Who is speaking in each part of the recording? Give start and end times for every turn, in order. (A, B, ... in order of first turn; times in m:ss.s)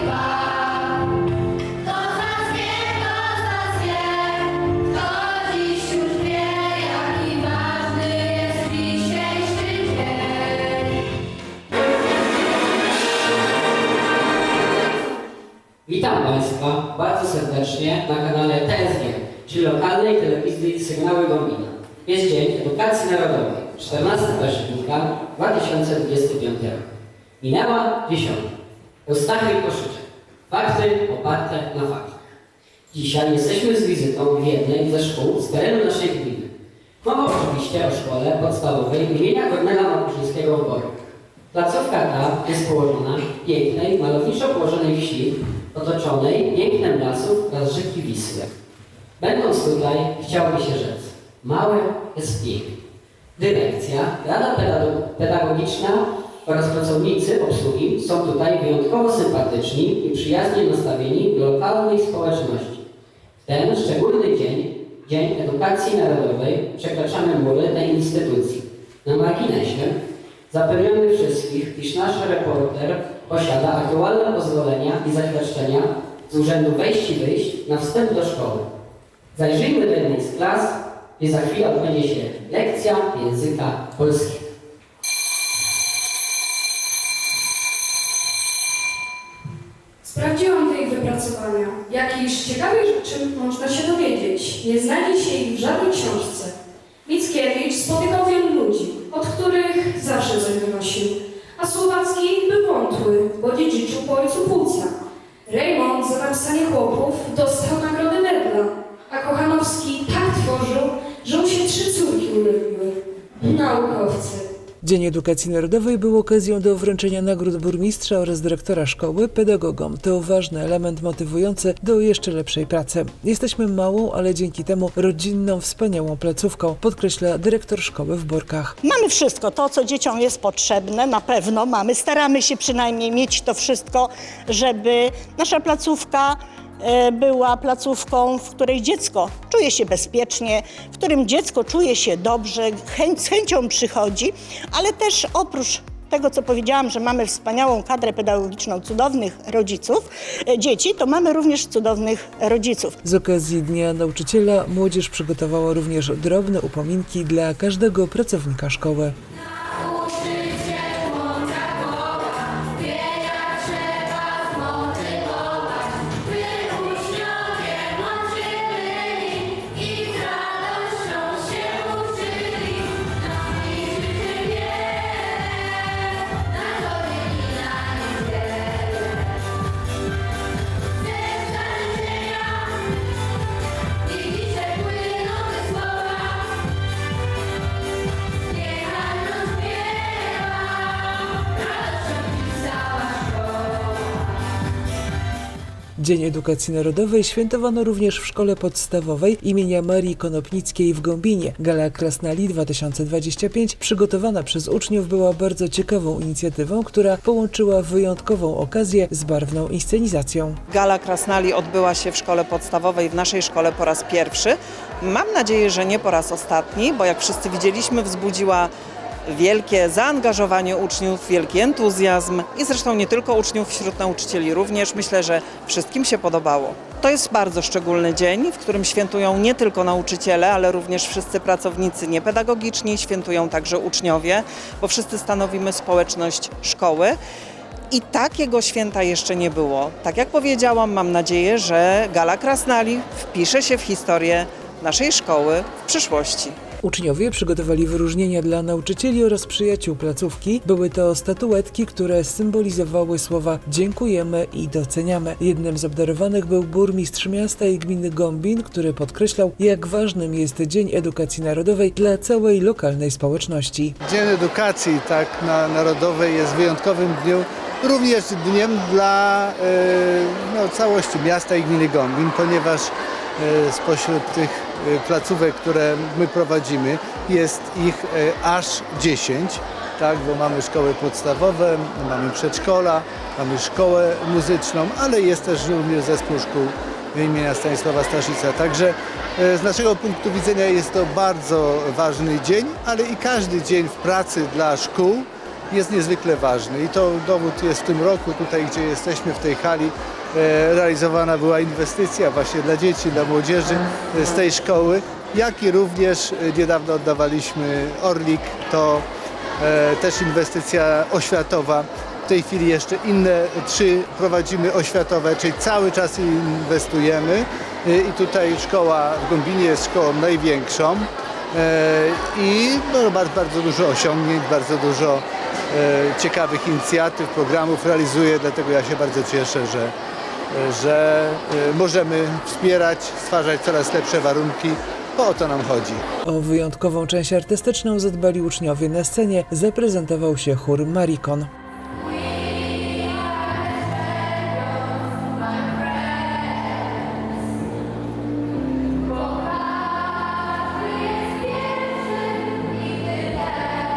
0:06.5-0:10.2 A
0:15.9-0:26.9 A
0:27.4-0:28.5 A
0:29.0-0:32.2 A
0:32.9-0:36.5 A
0:37.0-0:40.9 A
0:41.5-0:48.5 A
0:49.2-0:52.8 A
0:53.4-1:02.8 A
1:03.4-1:09.9 A
1:10.5-1:18.6 A
1:19.3-1:24.4 A
1:30.0-1:36.5 B
1:37.1-1:44.9 B
1:45.5-1:54.5 B
1:54.8-2:08.8 C
2:08.8-2:33.0 D
2:33.0-2:39.2 C
3:16.0-3:30.6 C
3:30.7-3:38.7 E
3:30.8-3:32.3 F
3:32.9-3:34.4 F
3:35.6-3:36.0 F
3:37.1-3:38.7 F
3:39.3-3:57.2 E
3:39.5-3:39.9 F
3:57.9-4:06.5 E
4:01.5-4:02.1 F
4:03.7-4:04.4 F
4:05.1-4:05.8 F
4:06.8-4:24.0 C
4:24.0-5:09.1 F
5:09.6-5:29.9 F
5:30.5-5:36.0 F
5:36.3-5:41.5 C